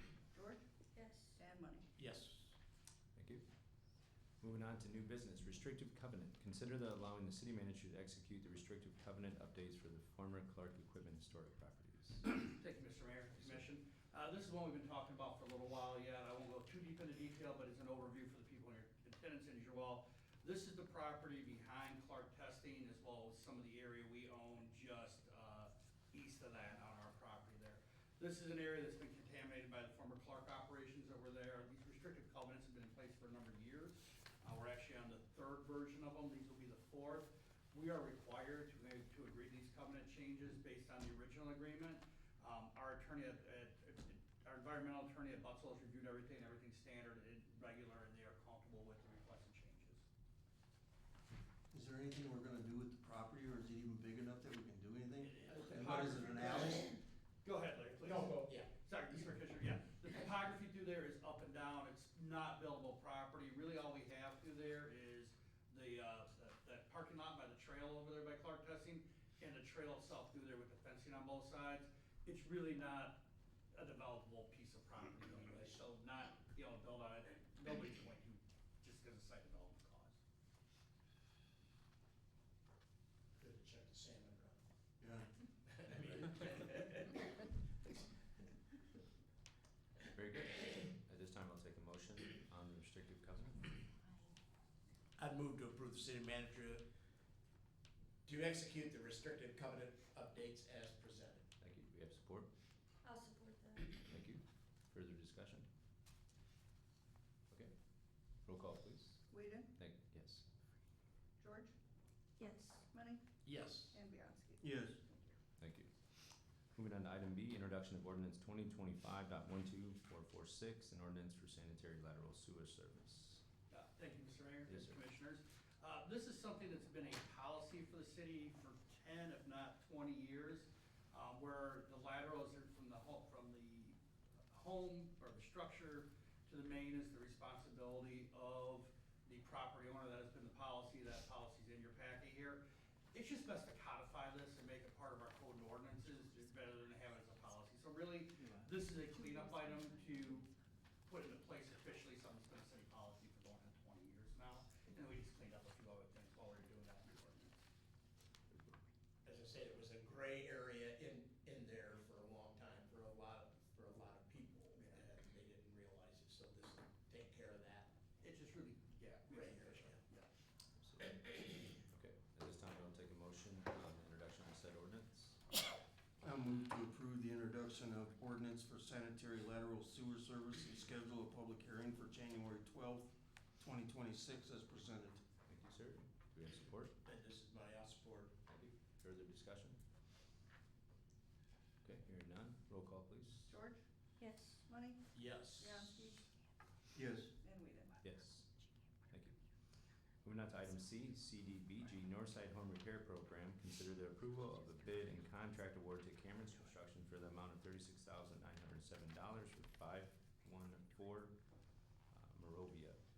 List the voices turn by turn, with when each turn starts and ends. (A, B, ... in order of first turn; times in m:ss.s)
0:00.3-0:00.6 A
0:01.0-0:01.4 B
0:01.4-0:01.9 A
0:02.0-0:02.6 C
0:03.2-0:03.4 D
0:04.4-0:12.3 D
0:12.2-0:50.0 E
0:13.4-0:13.6 D
0:51.7-0:57.0 F
0:55.5-0:56.9 C
0:55.6-0:56.9 E
0:57.4-1:13.2 E
0:58.0-0:58.7 C
1:13.7-1:20.2 E
1:15.3-1:15.8 C
1:23.4-1:24.6 C
1:25.0-1:25.3 F
1:25.7-1:27.2 C
1:30.2-1:33.8 D
1:35.2-1:36.8 C
1:38.2-1:41.5 C
1:41.6-1:42.5 D
1:43.0-1:43.9 B
1:44.0-1:45.7 D
1:47.5-1:50.4 D
1:49.3-1:49.7 A
1:51.4-1:51.7 A
1:52.4-1:52.8 B
1:52.9-1:53.2 A
1:53.4-1:54.0 C
1:53.9-1:55.3 A
1:54.6-1:55.0 F
1:55.6-1:55.9 D
1:56.8-2:03.4 D
2:03.7-2:14.0 E
2:04.7-2:05.0 D
2:14.5-2:22.6 E
2:23.1-2:30.5 E
2:31.1-2:37.6 E
2:38.5-2:38.8 D
2:39.2-2:47.9 C
2:44.8-2:45.1 E
2:48.2-2:50.3 E
2:49.0-2:50.0 C
2:50.8-2:55.4 D
2:51.1-2:51.4 C
2:56.2-3:05.2 F
3:05.5-3:06.9 D
3:07.0-3:08.4 C
3:08.5-3:09.8 D
3:11.8-3:13.6 D
3:13.5-3:13.8 A
3:14.2-3:14.6 B
3:14.7-3:16.3 A
3:15.1-3:16.2 C
3:17.0-3:17.3 F
3:17.4-3:18.0 A
3:18.0-3:18.5 D
3:19.1-3:19.4 D
3:20.2-3:31.3 D
3:32.1-3:33.0 D